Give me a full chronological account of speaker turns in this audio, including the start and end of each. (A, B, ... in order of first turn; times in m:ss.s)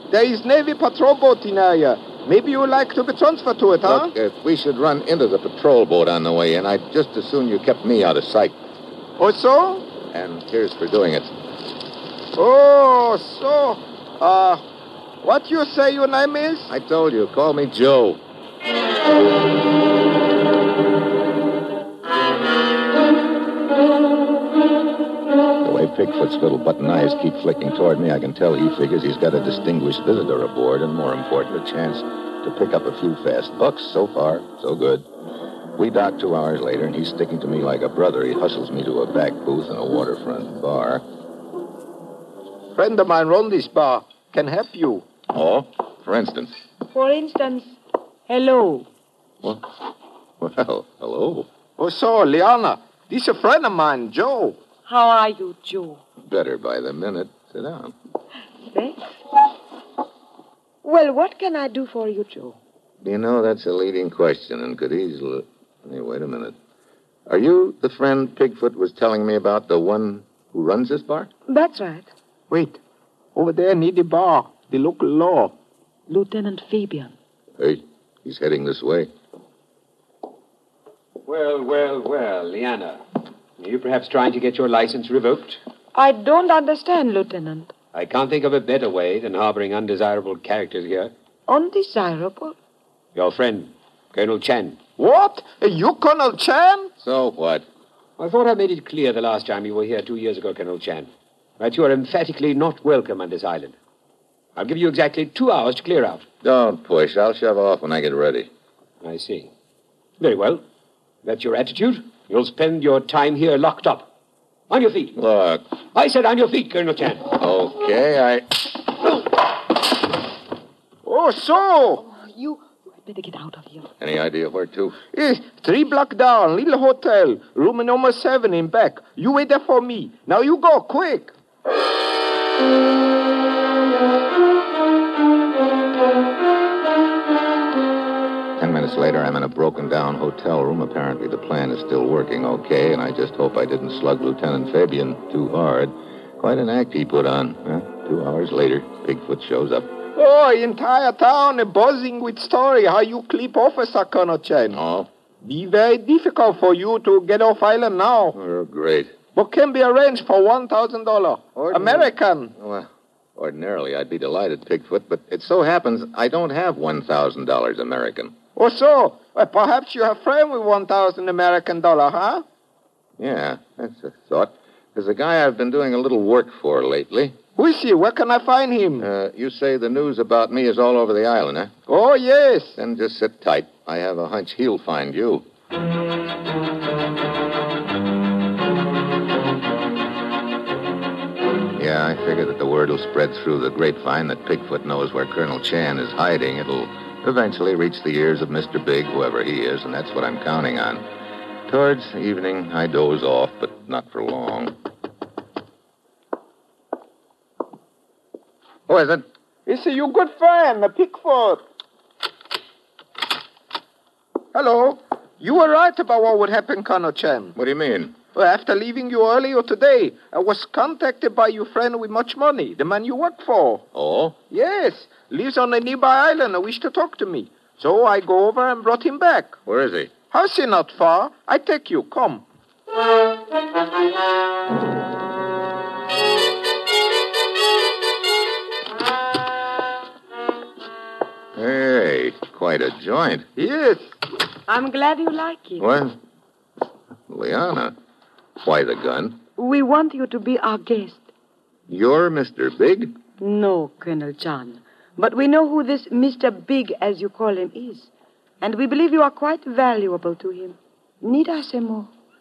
0:00.1-0:04.1 A
0:03.8-0:08.6 B
0:09.2-0:09.9 A
0:10.1-0:11.3 B
0:12.3-0:14.6 A
0:15.2-0:16.7 A
0:16.7-0:18.2 B
0:25.6-0:35.1 B
0:35.8-0:41.0 B
0:42.7-0:45.0 A
0:45.3-0:46.5 B
0:46.9-0:47.8 C
0:48.3-0:48.9 C
0:49.4-0:49.7 B
0:50.4-0:51.5 B
0:51.8-0:54.6 A
0:54.8-0:56.0 C
0:56.2-0:57.9 B
0:58.6-0:59.1 C
1:00.8-1:02.6 C
1:03.0-1:06.5 B
1:07.3-1:11.3 B
1:11.5-1:12.1 C
1:12.5-1:12.8 A
1:13.3-1:15.5 A
1:16.1-1:17.1 C
1:17.6-1:19.1 B
1:21.2-1:23.0 D
1:23.6-1:25.6 D
1:25.9-1:27.7 C
1:27.9-1:31.1 D
1:31.5-1:32.5 C
1:33.1-1:34.8 D
1:35.0-1:36.9 A
1:37.0-1:37.6 B
1:38.2-1:43.8 D
1:44.6-1:46.2 D
1:46.4-1:48.5 B
1:49.0-1:49.5 D
1:50.2-1:50.6 D
1:51.2-1:54.1 D
1:54.7-1:55.2 D
1:55.1-1:55.6 B
1:55.9-1:57.3 D
1:57.3-1:58.8 B
2:01.0-2:02.0 A
2:02.0-2:03.9 C
2:04.0-2:05.0 B
2:05.1-2:11.3 A
2:18.6-2:29.9 B
2:30.2-2:34.8 A
2:34.7-2:35.1 B
2:35.4-2:38.4 A
2:38.3-2:39.1 B
2:39.3-2:42.5 A
2:41.6-2:48.3 B
2:48.6-2:52.4 A
2:53.2-2:57.4 B
2:57.6-2:59.1 A
2:59.0-3:01.7 B
3:01.9-3:02.8 A
3:02.8-3:05.4 B
3:11.8-3:21.1 B
3:21.7-3:24.7 B
3:28.9-3:29.2 B
3:29.6-3:31.6 A
3:34.5-3:37.5 A
3:37.5-3:38.2 B
3:38.3-3:43.8 A
3:43.9-3:44.4 B
3:44.5-3:49.5 A
3:49.6-3:50.1 B
3:50.3-3:52.4 A
4:01.5-4:03.5 B
4:03.6-4:04.1 A
4:04.7-4:05.8 C
4:05.8-4:06.2 B
4:07.3-4:07.9 B
4:08.6-4:09.4 B
4:09.6-4:11.2 C
4:11.9-4:13.1 B
4:13.4-4:18.1 C
4:18.6-4:22.1 C